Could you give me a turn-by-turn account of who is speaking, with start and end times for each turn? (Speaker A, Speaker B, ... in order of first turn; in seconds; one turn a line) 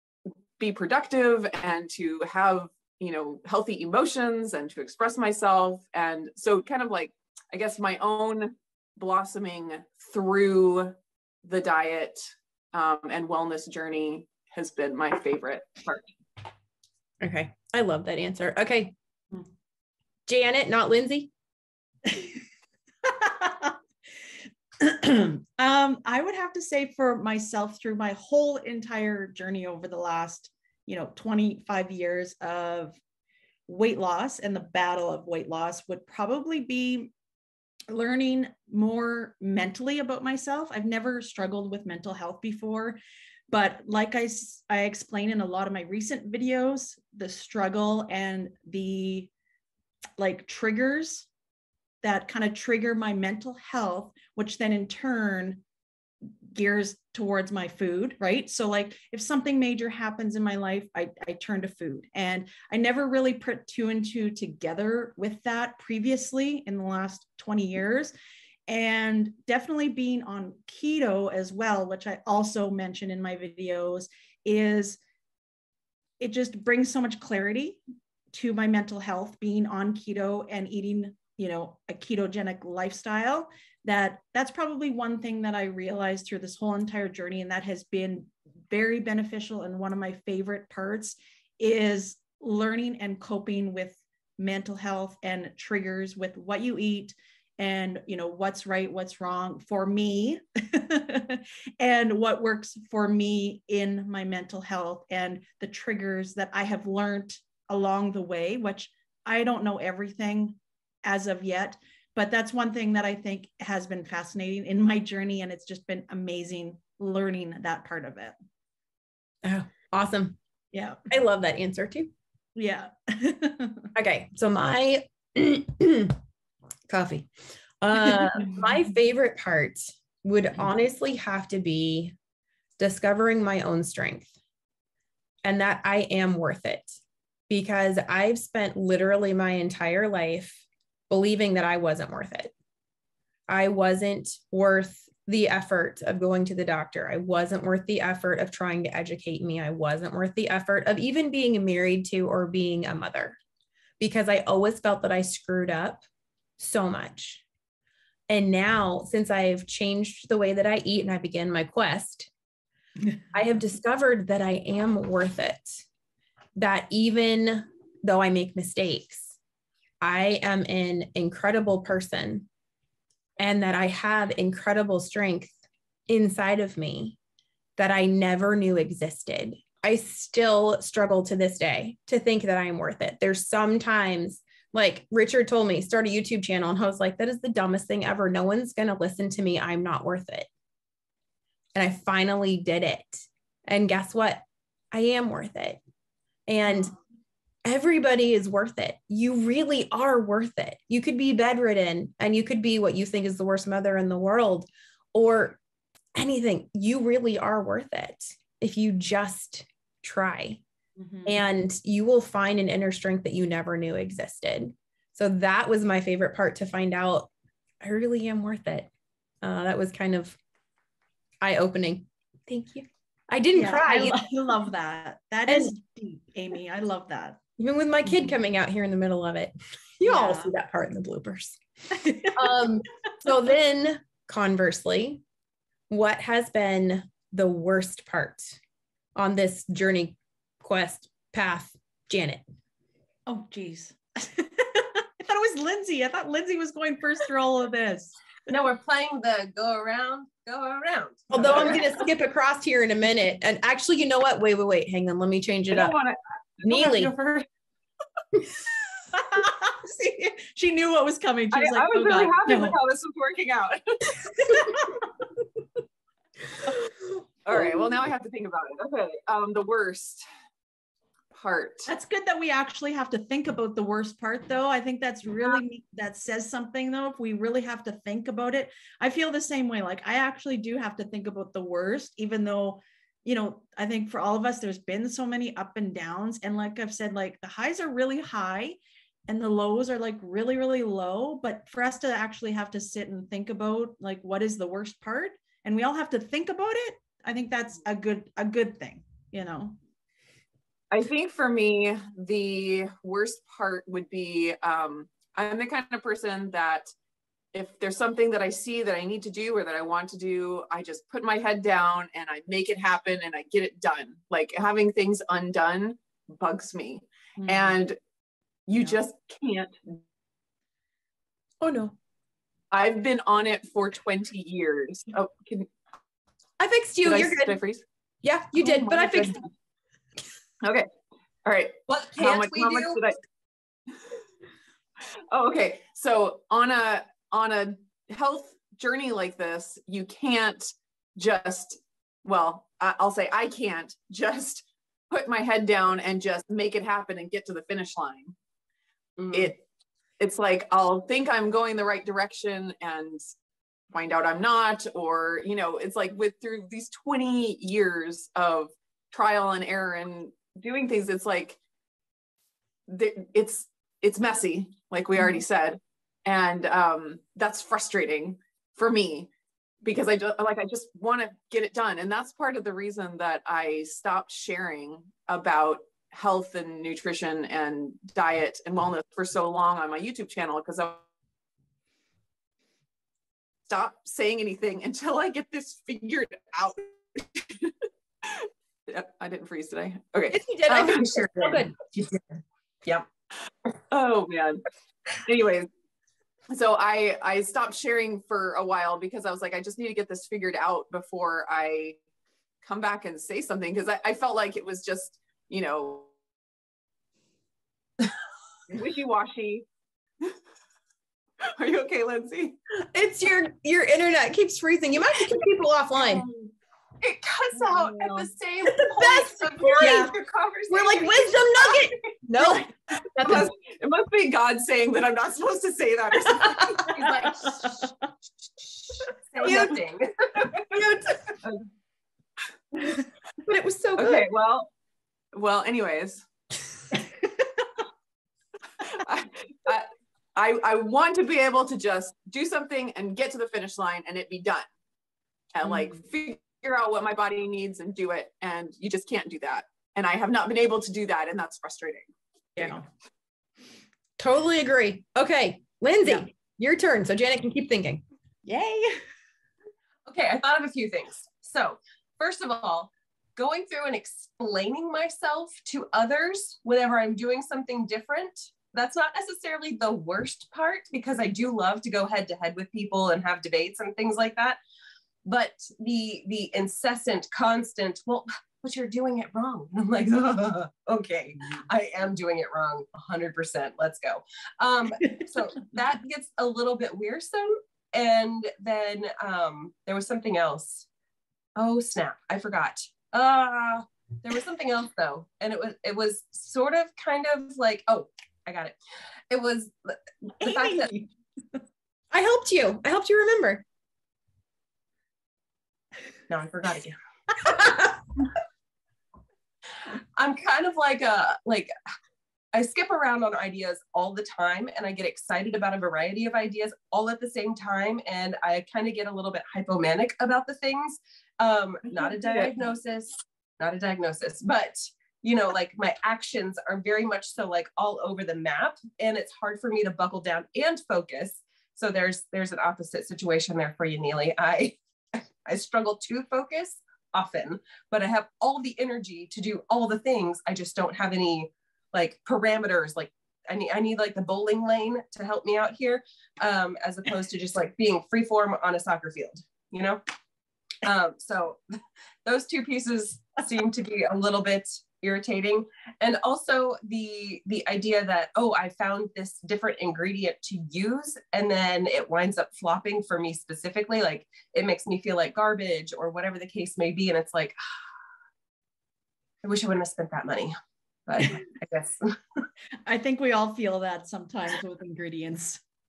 Speaker A: 0.6-16.1
Speaker B: 17.2-18.9
Speaker B: 20.3-21.3
Speaker C: 23.0-23.8
Speaker C: 24.8-33.0
Speaker C: 33.7-37.1
Speaker C: 37.9-49.3
Speaker C: 50.2-51.3
Speaker C: 52.0-55.6
Speaker C: 56.5-68.1
Speaker C: 68.7-75.0
Speaker C: 76.2-77.8
Speaker C: 78.3-118.3
Speaker B: 119.4-120.4
Speaker C: 120.7-121.0
Speaker B: 121.1-122.1
Speaker C: 122.5-123.9
Speaker B: 123.9-126.2
Speaker B: 126.9-127.3
Speaker B: 127.8-132.1
Speaker B: 132.8-134.3
Speaker B: 135.4-137.0
Speaker B: 137.5-142.5
Speaker B: 143.5-153.4
Speaker B: 154.0-156.0
Speaker B: 156.6-157.4
Speaker B: 158.3-162.3
Speaker B: 163.3-165.8
Speaker B: 166.6-169.3
Speaker B: 170.0-172.5
Speaker B: 173.4-175.6
Speaker B: 176.1-177.2
Speaker B: 177.8-190.5
Speaker B: 191.7-195.8
Speaker B: 196.5-196.9
Speaker B: 197.6-205.6
Speaker B: 206.2-210.6
Speaker C: 211.0-211.4
Speaker B: 211.2-217.3
Speaker B: 217.8-218.9
Speaker B: 219.4-220.4
Speaker B: 221.4-224.2
Speaker C: 223.5-227.4
Speaker B: 225.5-225.7
Speaker B: 227.6-231.6
Speaker C: 230.1-230.5
Speaker C: 232.0-232.6
Speaker B: 232.2-235.2
Speaker B: 235.9-238.6
Speaker B: 239.1-242.4
Speaker C: 243.2-248.1
Speaker D: 248.5-251.8
Speaker B: 251.3-255.9
Speaker A: 251.3-251.8
Speaker A: 255.7-257.4
Speaker B: 256.6-257.1
Speaker C: 259.1-262.8
Speaker A: 261.5-264.3
Speaker C: 264.3-265.1
Speaker A: 267.4-270.2
Speaker A: 271.3-271.9
Speaker C: 271.9-299.8
Speaker A: 300.9-306.9
Speaker A: 307.5-318.0
Speaker C: 317.4-317.8
Speaker A: 318.7-320.0
Speaker B: 321.6-321.9
Speaker A: 322.7-325.7
Speaker B: 326.6-327.6
Speaker A: 327.0-327.8
Speaker B: 328.2-329.4
Speaker A: 328.6-329.4
Speaker A: 330.6-330.9
Speaker A: 331.4-333.2
Speaker D: 331.9-333.0
Speaker A: 335.3-348.3
Speaker D: 349.2-349.5
Speaker A: 349.3-349.6
Speaker A: 350.2-353.2
Speaker A: 353.9-361.6
Speaker A: 362.9-369.3
Speaker A: 369.8-381.0
Speaker A: 383.7-390.9
Speaker B: 390.3-391.7
Speaker D: 390.7-393.1
Speaker A: 393.9-394.6
Speaker A: 395.2-395.7
Speaker A: 396.5-402.0
Speaker A: 402.6-406.1
Speaker A: 408.7-409.6
Speaker A: 411.4-412.6
Speaker B: 412.9-416.2
Speaker A: 416.0-416.5
Speaker D: 417.0-420.2
Speaker A: 417.5-421.8
Speaker B: 418.8-420.1
Speaker C: 419.8-420.1
Speaker B: 420.7-423.5
Speaker A: 423.2-427.0
Speaker C: 426.8-427.9
Speaker D: 426.8-427.8
Speaker D: 429.2-430.6
Speaker B: 429.4-429.7
Speaker B: 430.7-431.2
Speaker B: 433.4-434.3
Speaker A: 434.0-434.7
Speaker A: 435.3-436.2
Speaker A: 438.8-444.7
Speaker A: 445.5-452.8
Speaker C: 452.6-452.8
Speaker B: 454.2-458.0
Speaker C: 458.4-459.0
Speaker D: 460.1-474.6
Speaker D: 475.2-490.9
Speaker D: 491.6-498.8
Speaker D: 499.3-500.9
Speaker C: 500.4-501.1
Speaker B: 502.1-503.6
Speaker D: 506.3-507.7
Speaker D: 510.1-511.7
Speaker D: 512.5-550.0
Speaker A: 521.9-522.5
Speaker D: 550.8-551.6
Speaker D: 552.2-567.5
Speaker D: 569.4-570.5
Speaker D: 571.1-572.5
Speaker C: 572.9-575.6